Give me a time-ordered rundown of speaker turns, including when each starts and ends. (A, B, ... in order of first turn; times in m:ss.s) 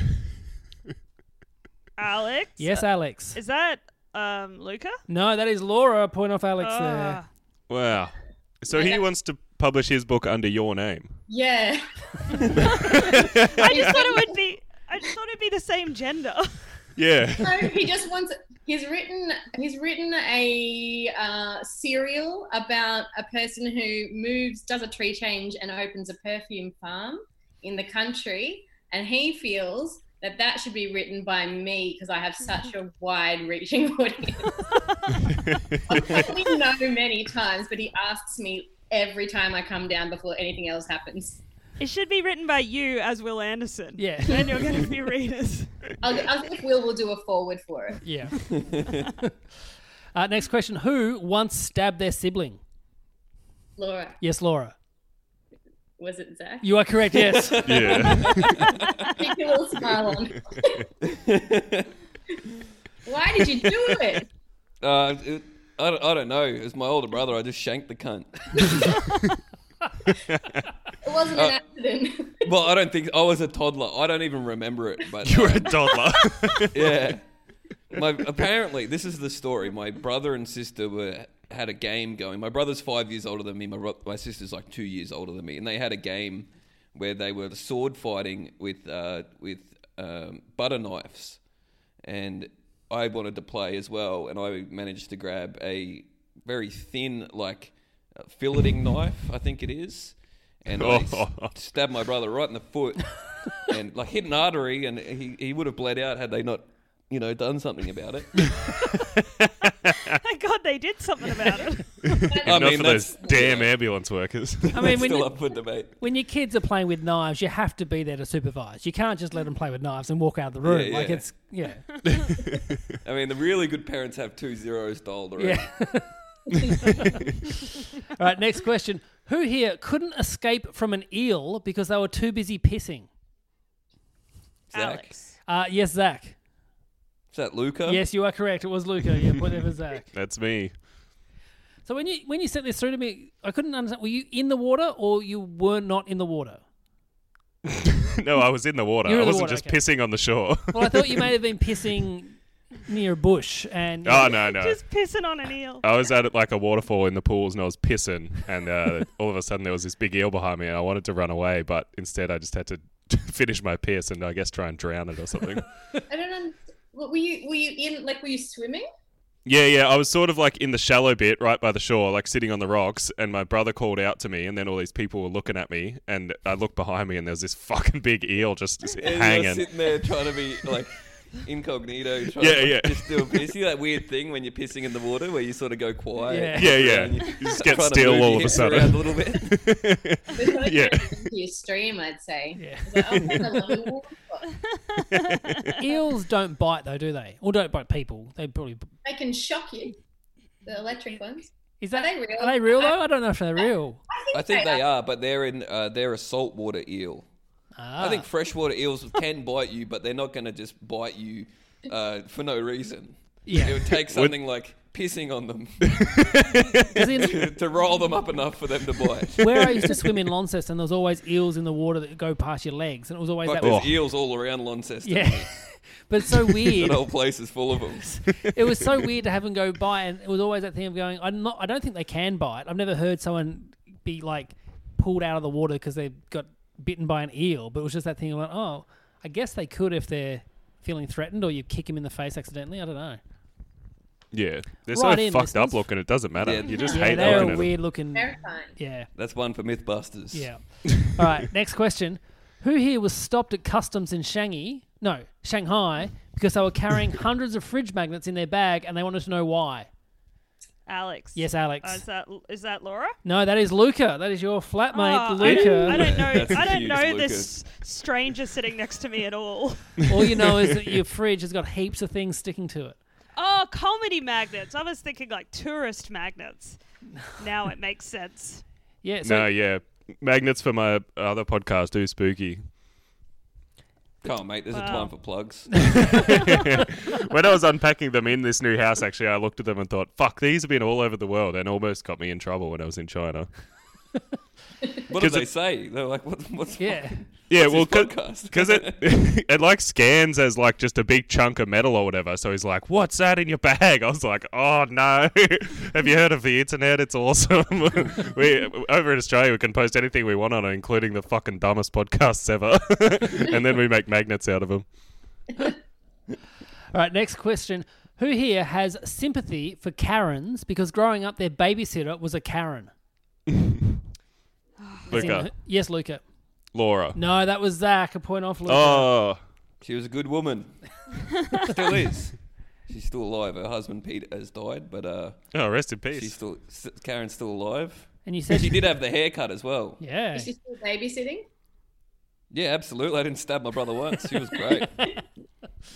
0:02.0-0:05.0 A
0:02.6-0:03.4 B
0:05.1-0:07.2 B
0:06.6-0:07.3 A
0:07.7-0:11.1 C
0:08.7-0:09.1 D
0:11.3-0:14.4 D
0:12.7-0:13.9 C
0:13.6-0:16.6 A
0:17.0-0:17.7 C
0:17.4-0:34.6 D
0:34.8-0:35.1 A
0:35.2-0:36.2 C
0:35.9-0:41.4 D
0:41.8-0:45.9 A
0:44.0-0:44.8 B
0:46.0-0:48.0 D
0:48.0-0:48.4 B
0:48.5-0:49.0 E
0:48.9-0:49.3 B
0:50.1-0:52.6 B
0:53.8-0:54.2 D
0:54.2-0:54.8 B
0:56.0-0:56.7 D
0:56.6-0:58.0 B
0:57.2-0:59.1 E
0:57.6-0:58.7 C
0:59.2-1:00.9 D
1:01.0-1:01.9 E
1:03.1-1:04.3 D
1:04.8-1:08.7 E
1:08.6-1:08.9 D
1:10.3-1:10.6 C
1:11.0-1:12.5 D
1:12.4-1:16.0 E
1:15.2-1:17.0 C
1:16.7-1:17.3 E
1:17.9-1:31.4 E
1:32.0-1:48.4 E
1:40.8-1:41.5 C
1:49.9-1:50.1 C
1:50.1-1:52.2 A
1:52.0-1:54.9 C
1:52.3-1:53.4 D
1:52.4-1:53.7 E
1:54.7-1:55.4 B
1:54.8-1:56.0 E
1:56.0-2:01.9 B
2:00.6-2:01.3 E
2:02.0-2:03.0 C
2:03.0-2:05.7 E
2:05.4-2:06.2 B
2:08.1-2:13.1 B
2:14.7-2:15.2 E
2:14.7-2:15.2 A
2:15.5-2:16.4 B
2:17.3-2:18.0 E
2:17.8-2:20.1 B
2:20.1-2:20.7 C
2:21.8-2:26.6 B
2:27.8-2:31.3 C
2:29.0-2:29.8 B
2:30.7-2:34.3 B
2:34.1-2:34.8 C
2:34.2-2:35.8 A
2:35.8-2:45.7 C
2:46.1-2:48.9 D
2:49.5-2:59.8 C
2:58.9-3:09.5 E
3:02.4-3:03.3 C
3:06.3-3:06.8 B
3:06.6-3:11.2 C
3:10.4-3:14.5 D
3:12.6-3:13.4 B
3:13.3-3:13.6 C
3:15.0-3:15.7 A
3:15.1-3:15.7 C
3:15.8-3:18.9 B
3:19.0-3:20.0 D
3:20.6-3:23.0 D
3:21.8-3:24.0 B
3:24.1-3:24.8 D
3:24.3-3:27.3 E
3:27.8-3:28.3 B
3:28.0-3:35.8 E
3:33.5-3:33.8 B
3:34.0-3:34.3 C
3:35.8-3:36.9 C
3:37.0-3:37.4 B
3:37.2-3:39.9 E
3:39.4-3:43.8 B
3:43.4-3:45.6 E
3:43.6-3:44.0 C
3:45.0-3:47.0 B
3:46.6-3:48.2 E
3:48.0-4:03.2 B
4:04.3-4:07.7 C
4:04.9-4:05.9 B
4:06.4-4:07.6 E
4:06.6-4:07.0 A
4:06.9-4:09.1 B
4:08.1-4:08.8 D
4:09.1-4:10.5 E
4:10.3-4:19.9 B
4:20.9-4:23.2 A
4:21.4-4:22.0 B
4:23.2-4:26.5 B
4:24.9-4:30.0 A
4:25.4-4:27.6 E
4:30.1-4:33.0 B
4:33.4-4:36.8 A
4:37.4-4:38.6 A
4:39.0-4:39.5 B
4:39.2-4:42.6 C
4:44.2-4:46.2 E
4:44.7-4:45.1 A
4:45.9-4:53.5 C
4:55.1-4:59.0 E
4:55.2-4:55.5 C
4:56.8-4:57.2 B
4:57.5-5:14.9 C
5:16.9-5:22.9 B
5:24.8-5:25.3 A
5:25.1-5:25.5 C
5:25.1-5:26.2 B
5:26.7-5:27.2 C
5:27.1-5:29.1 B
5:28.7-5:29.4 C
5:29.8-5:30.8 E
5:31.6-5:32.4 E
5:32.9-5:35.4 E
5:35.5-5:36.3 C
5:36.1-5:40.0 E
5:38.3-5:38.9 B
5:40.0-5:40.5 B
5:40.4-5:41.5 D
5:42.5-5:45.1 E